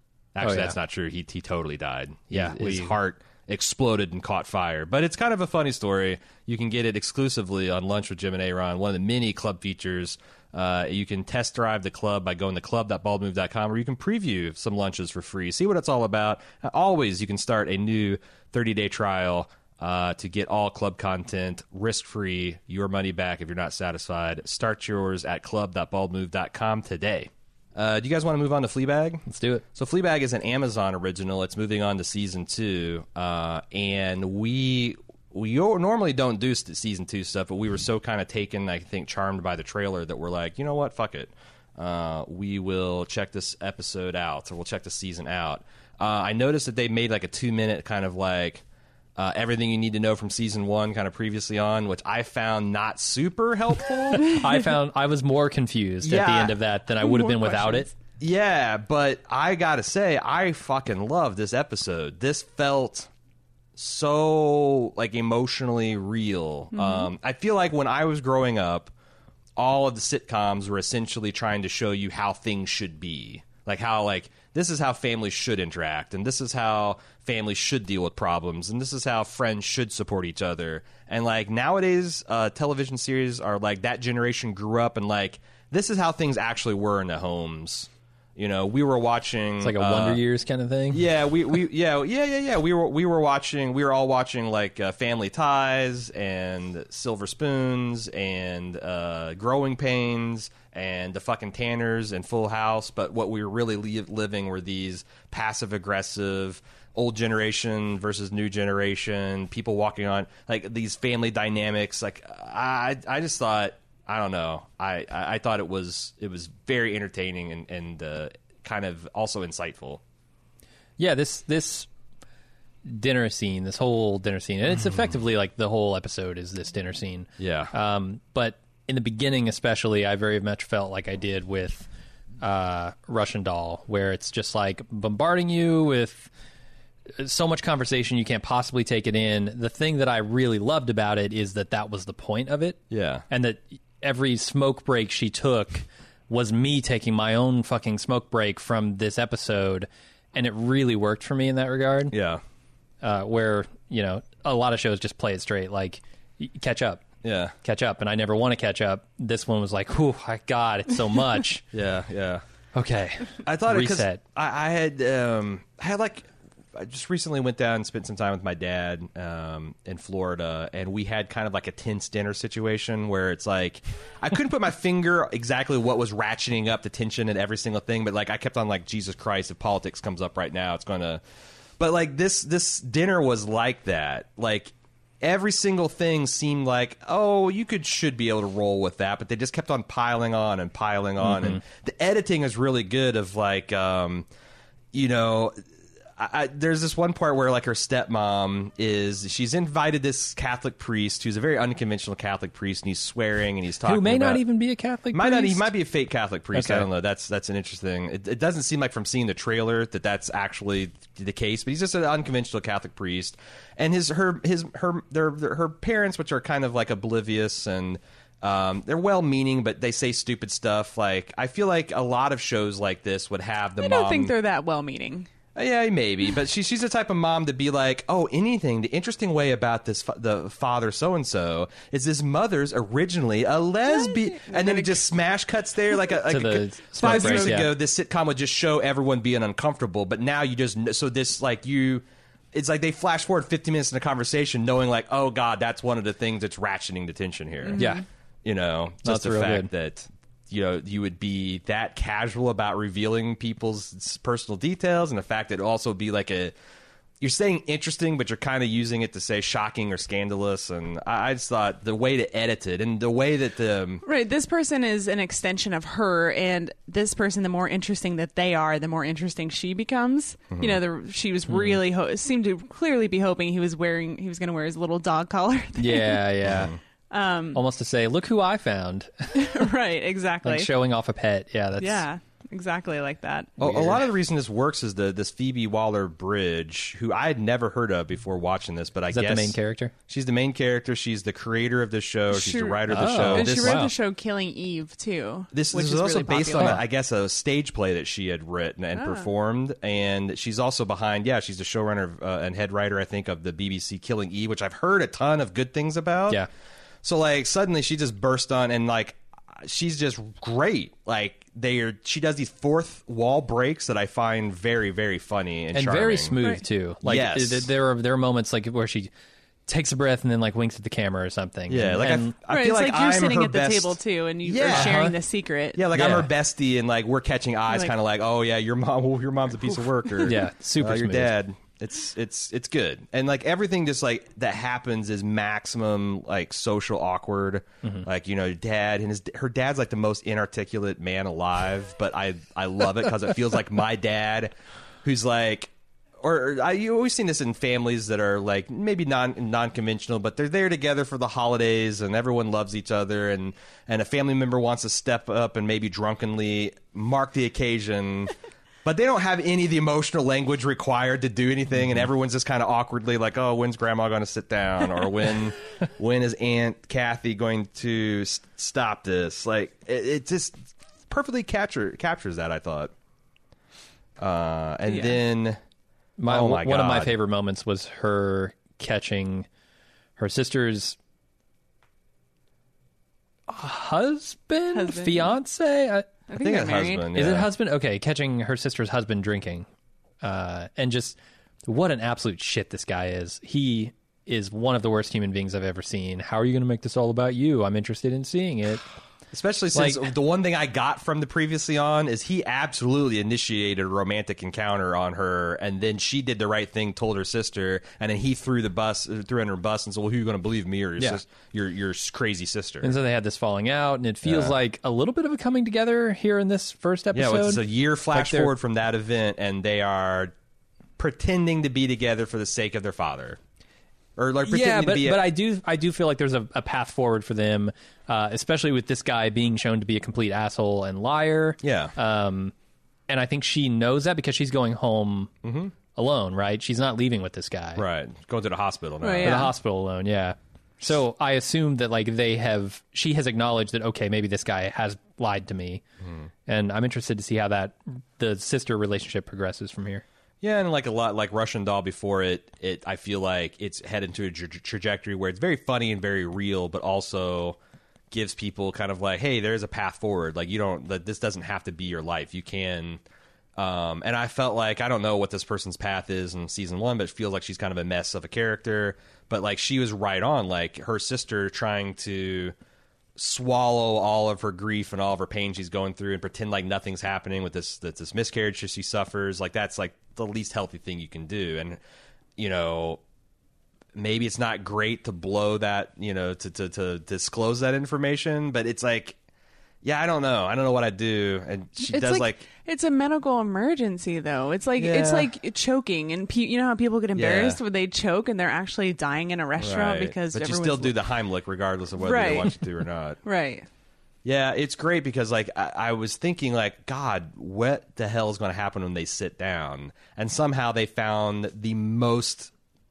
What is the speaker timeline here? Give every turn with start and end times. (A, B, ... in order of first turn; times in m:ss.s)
0:00.4-0:48.6 A
0:00.4-0:00.8 B
0:02.3-0:02.9 B
0:29.3-0:29.6 B
0:49.2-0:54.3 A
0:54.2-0:57.9 B
0:56.0-0:56.6 A
0:57.0-0:58.0 C
0:58.2-1:03.1 A
1:03.8-1:08.9 A
1:06.7-1:07.1 C
1:09.6-1:30.2 A
1:29.6-1:31.0 B
1:30.9-2:00.0 A
2:01.0-2:01.9 B
2:02.8-2:11.9 B
2:07.4-2:07.7 A
2:12.4-2:16.3 B
2:17.2-2:32.2 B
2:22.9-2:23.2 A
2:32.1-2:32.4 A
2:33.0-2:37.0 B
2:37.2-2:37.5 A
2:37.6-2:41.6 B
2:41.7-2:42.4 A
2:42.7-2:44.2 B
2:43.4-3:01.2 A
3:01.8-3:14.3 A
3:11.2-3:11.6 B
3:14.9-3:15.6 A
3:16.2-3:24.4 A
3:23.8-3:25.7 B
3:25.1-3:44.3 A
3:26.5-3:26.9 B
3:43.8-3:45.3 C
3:45.6-4:07.8 A
3:54.0-3:55.0 C
3:56.3-3:57.7 B
3:57.0-3:57.6 C
4:07.6-4:08.0 C
4:07.8-4:08.0 B
4:08.4-4:16.5 A
4:09.0-4:09.7 B
4:17.2-4:24.0 A
4:24.0-4:36.2 C
4:30.5-4:30.8 A
4:31.5-4:31.8 B
4:35.8-4:36.8 B
4:36.4-4:36.8 A
4:37.1-4:37.6 C
4:37.5-4:39.6 B
4:39.3-4:40.7 C
4:40.4-4:42.0 B
4:41.8-4:43.6 C
4:43.6-4:44.0 B
4:43.6-4:49.6 A
4:49.1-4:49.9 B
4:50.1-4:53.8 A
4:52.3-4:56.8 C
4:52.9-4:53.9 B
4:55.5-5:06.4 A
4:56.6-4:56.8 B
4:59.0-4:59.3 C
5:07.0-5:16.3 A
5:15.7-5:19.1 B
5:17.0-5:17.7 A
5:19.7-5:22.3 B
5:21.7-5:25.1 A
5:22.5-5:25.8 C
5:24.7-5:25.2 B
5:25.8-5:44.5 A
5:25.9-5:26.3 B
5:27.7-5:28.0 C
5:30.0-5:30.3 C
5:30.2-5:31.3 B
5:45.0-5:58.3 A
5:58.8-6:12.9 A
6:14.2-6:15.6 A
6:14.9-6:15.2 C
6:16.2-6:19.5 B
6:16.3-6:17.1 A
6:20.2-6:21.0 B
6:23.5-6:26.1 B
6:24.7-6:25.3 C
6:26.3-6:27.1 C
6:26.4-6:27.5 A
6:27.1-6:29.7 B
6:30.2-6:38.8 B
6:39.3-6:52.9 A
6:39.8-6:40.1 B
6:52.8-6:58.5 B
6:54.2-6:54.5 A
6:57.1-7:00.3 A
7:01.0-7:03.4 A
7:04.2-7:05.2 A
7:04.4-7:12.5 B
7:11.6-7:12.0 A
7:13.1-7:15.3 B
7:15.4-7:15.7 A
7:16.0-7:17.8 B
7:17.8-7:19.5 A
7:19.0-7:19.5 C
7:19.2-7:25.8 B
7:26.5-7:30.0 B
7:30.4-7:37.6 A
7:38.1-7:43.0 A
7:43.6-7:52.5 A
7:53.2-8:01.8 A
8:02.4-8:03.0 A
8:04.0-8:09.2 A
8:09.8-8:12.4 A
8:11.9-8:21.1 C
8:14.8-8:15.3 A
8:17.2-8:17.6 A
8:19.6-8:23.2 A
8:22.0-8:22.6 C
8:23.2-8:23.7 C
8:24.2-8:32.5 A